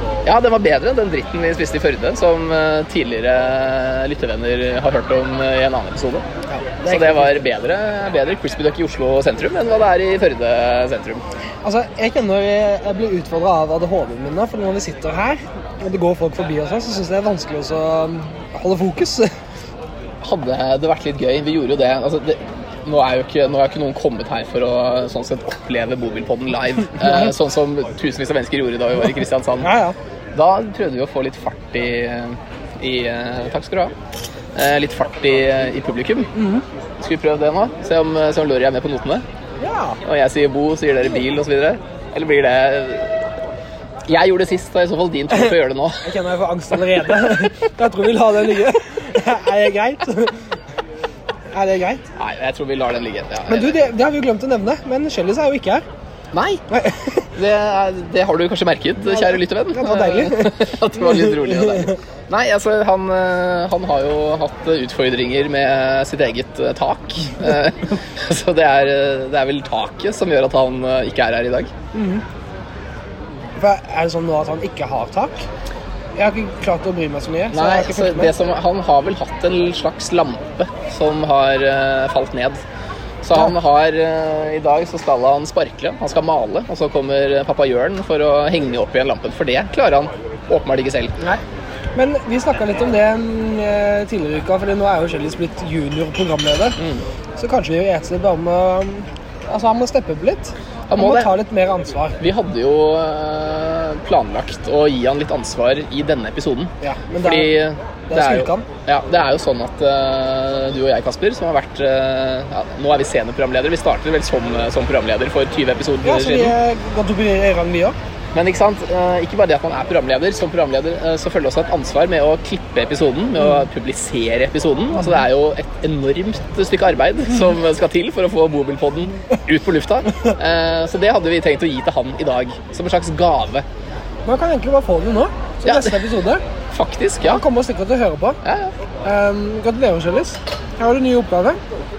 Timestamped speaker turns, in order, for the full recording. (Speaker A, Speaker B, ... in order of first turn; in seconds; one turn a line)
Speaker A: 0.2-6.2
Speaker B: 6.5-7.5
Speaker A: 6.9-11.2
Speaker B: 11.6-19.3
Speaker A: 20.2-29.7
Speaker B: 29.6-30.0
Speaker A: 30.3-33.9
Speaker A: 34.5-36.3
Speaker B: 36.4-36.6
Speaker A: 37.0-39.2
Speaker B: 39.6-40.0
Speaker A: 40.0-43.2
Speaker A: 44.1-46.1
Speaker B: 46.0-50.5
Speaker B: 51.5-52.0
Speaker A: 52.2-53.8
Speaker B: 53.5-55.8
Speaker A: 56.3-56.6
Speaker B: 56.7-57.3
Speaker A: 57.4-71.7
Speaker B: 59.0-62.0
Speaker B: 71.9-72.2
Speaker B: 73.6-75.5
Speaker B: 76.2-78.3
Speaker A: 77.5-82.6
Speaker A: 83.2-91.2
Speaker B: 92.0-96.8
Speaker A: 96.8-97.0
Speaker B: 97.4-102.2
Speaker A: 100.9-101.4
Speaker A: 102.2-116.5
Speaker B: 106.8-107.5
Speaker B: 108.1-108.7
Speaker B: 116.0-118.0
Speaker A: 118.3-133.7
Speaker B: 134.3-136.4
Speaker A: 135.7-136.0
Speaker A: 136.7-137.4
Speaker B: 137.2-138.4
Speaker A: 138.4-138.7
Speaker B: 139.0-141.6